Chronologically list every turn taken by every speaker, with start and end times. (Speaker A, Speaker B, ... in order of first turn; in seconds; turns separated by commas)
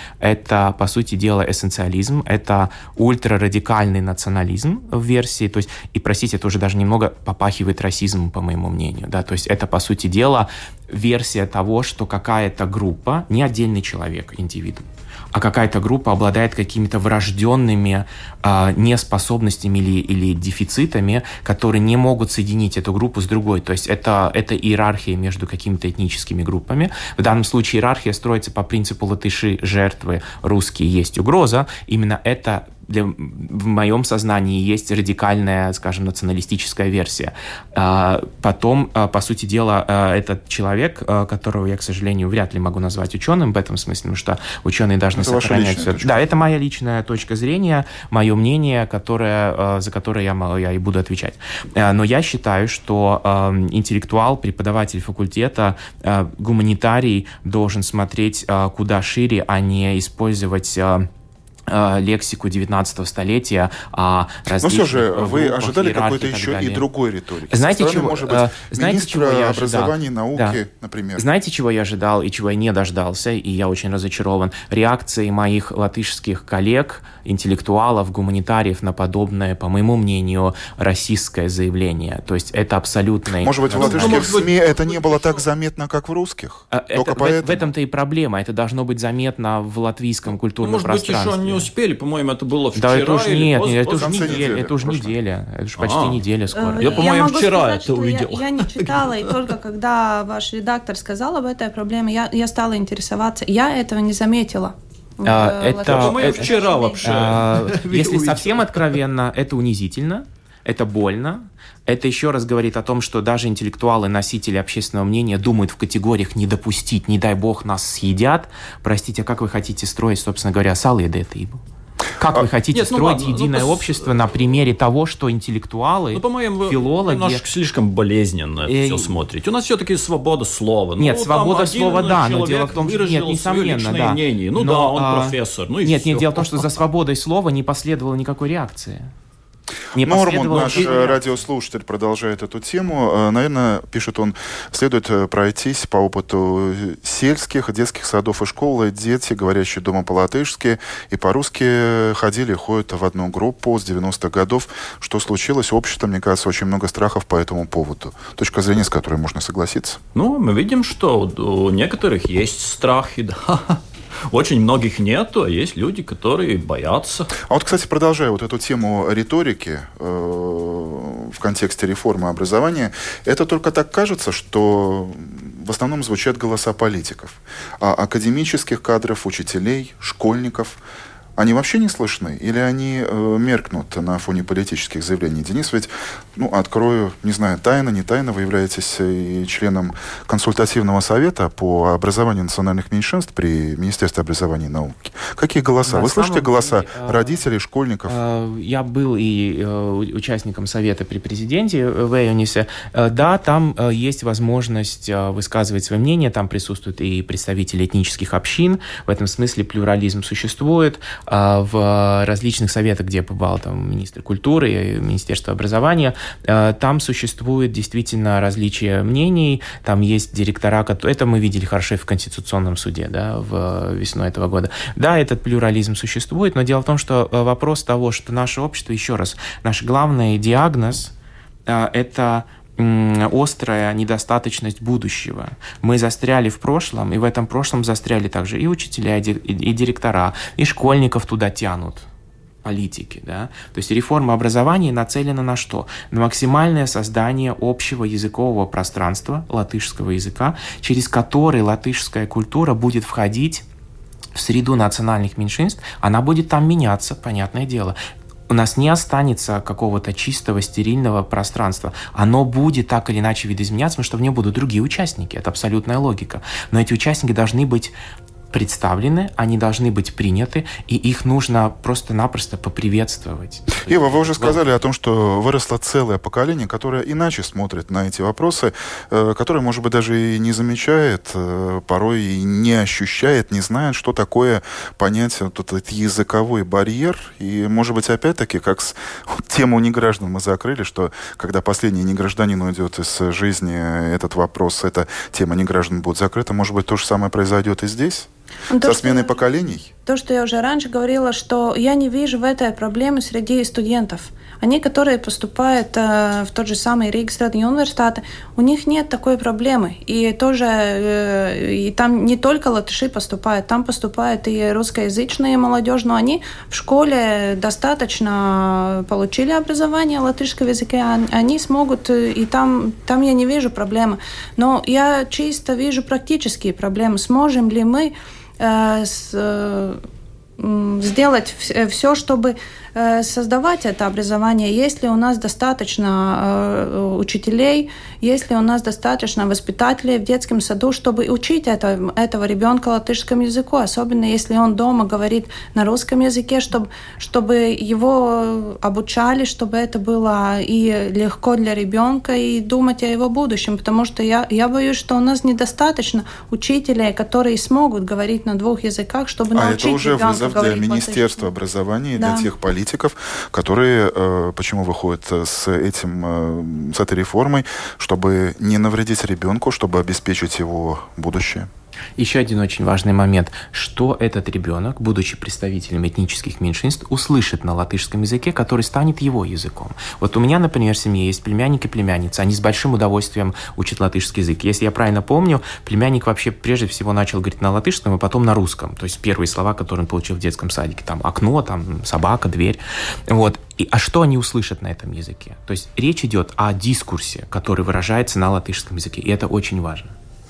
Speaker A: 0.2-61.1, Speaker B: 45.1-46.2, Speaker A: 61.7-66.9, Speaker B: 64.6-71.2, Speaker A: 67.5-70.6, Speaker A: 71.2-84.4, Speaker B: 83.4-87.7, Speaker C: 83.7-85.4, Speaker A: 86.7-91.7, Speaker C: 90.6-94.5, Speaker A: 92.8-97.1, Speaker B: 94.0-95.2, Speaker C: 95.8-96.2, Speaker D: 96.5-107.2, Speaker C: 96.8-99.4, Speaker A: 105.2-121.6, Speaker C: 105.8-108.9, Speaker A: 122.2-127.4, Speaker C: 122.7-124.4, Speaker C: 126.1-136.8, Speaker A: 128.7-129.1, Speaker A: 131.0-139.1, Speaker A: 139.9-141.2, Speaker B: 139.9-160.0, Speaker C: 160.1-167.4, Speaker B: 167.5-180.8, Speaker B: 181.4-198.2, Speaker A: 195.8-197.4, Speaker A: 198.1-231.1, Speaker A: 231.7-242.1, Speaker A: 242.6-253.6, Speaker A: 254.3-258.0, Speaker A: 258.5-267.9, Speaker A: 268.5-274.7, Speaker B: 273.8-298.3, Speaker D: 298.7-299.4, Speaker B: 298.8-299.9, Speaker D: 300.1-330.0, Speaker D: 330.6-361.5, Speaker B: 359.5-371.7, Speaker D: 362.2-362.5, Speaker A: 372.2-400.1